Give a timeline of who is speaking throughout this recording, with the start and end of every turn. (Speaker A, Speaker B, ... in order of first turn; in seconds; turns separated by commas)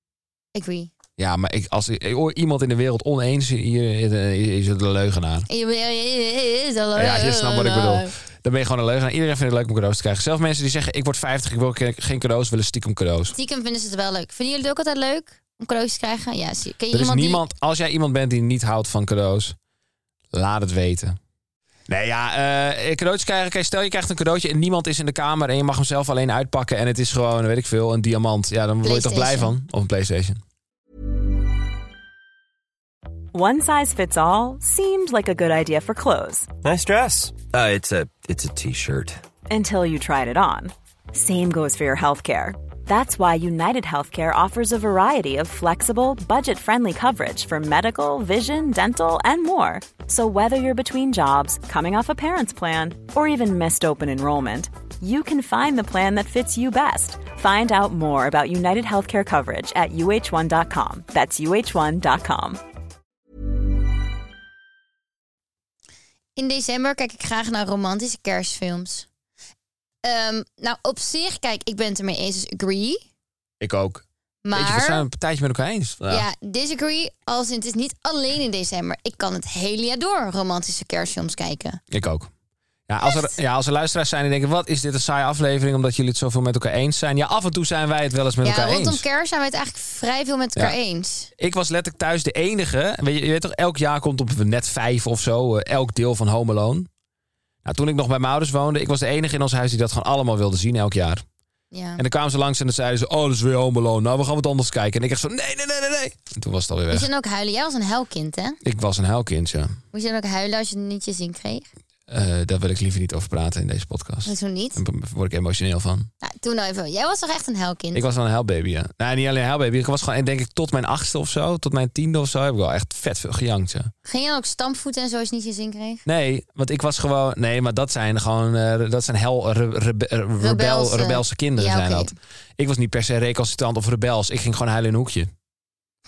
Speaker A: 0.6-0.9, Speaker B: 1.2-5.5, Speaker A: 5.5-8.1, Speaker B: 7.0-13.3, Speaker A: 13.3-17.4, Speaker B: 16.9-19.6, Speaker B: 20.3-21.2, Speaker B: 21.9-30.4, Speaker A: 28.8-29.5, Speaker C: 33.3-36.5, Speaker D: 36.6-39.2, Speaker C: 39.5-62.6, Speaker A: 66.4-69.1, Speaker A: 70.0-73.0, Speaker B: 73.6-76.3, Speaker A: 74.5-75.0, Speaker A: 76.1-81.8, Speaker B: 81.9-82.3, Speaker B: 82.9-89.0, Speaker A: 83.0-83.3, Speaker A: 88.4-91.3, Speaker B: 91.4-96.9, Speaker B: 97.7-101.2, Speaker A: 101.7-102.0, Speaker B: 102.0-107.1, Speaker A: 106.9-108.6, Speaker B: 108.6-109.8, Speaker A: 109.9-111.7, Speaker B: 112.1-116.1, Speaker A: 114.2-114.8, Speaker A: 116.2-118.0, Speaker B: 117.9-123.9, Speaker A: 124.0-126.0, Speaker B: 126.1-135.3, Speaker A: 130.4-132.1